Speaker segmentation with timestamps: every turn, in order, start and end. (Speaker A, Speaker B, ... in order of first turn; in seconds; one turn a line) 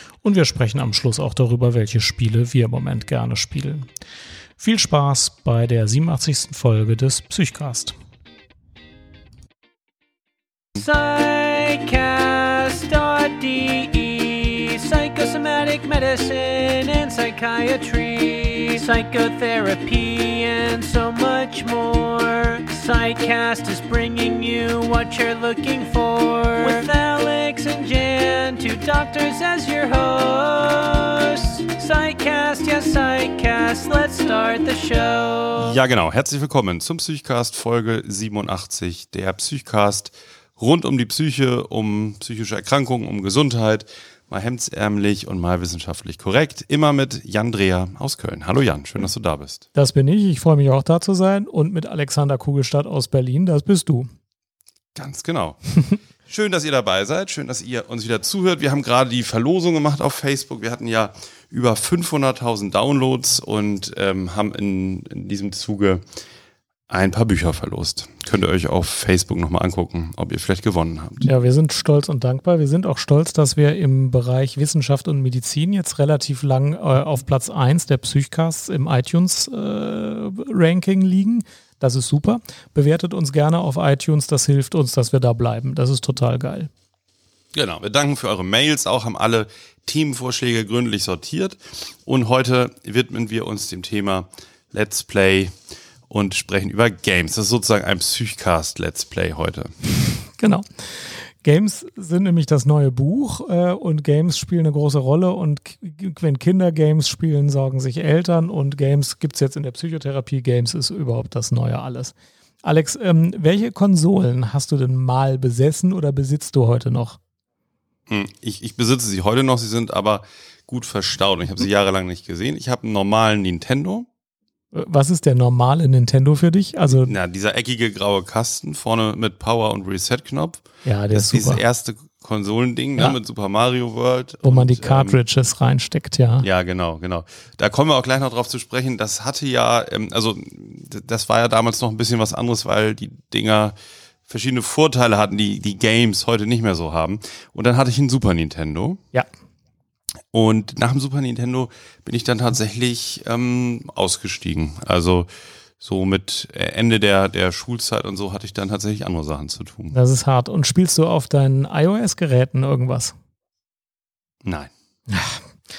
Speaker A: 0.2-3.9
Speaker A: 4.6-7.9
Speaker B: 10.8-35.8
Speaker C: 35.5-49.6
Speaker A: 49.7-54.1
Speaker C: 54.9-55.6
Speaker C: 56.2-66.0
Speaker C: 66.9-71.2
Speaker A: 71.2-86.7
Speaker C: 87.5-95.5
Speaker C: 96.1-99.7
Speaker A: 100.4-117.2
Speaker C: 118.1-124.1
Speaker A: 124.7-127.1
Speaker C: 126.9-135.2
Speaker A: 130.8-131.6
Speaker A: 134.4-136.5
Speaker C: 136.4-143.7
Speaker C: 144.3-149.0
Speaker C: 150.3-159.9
Speaker A: 159.9-163.1
Speaker C: 164.4-164.7
Speaker A: 165.1-165.5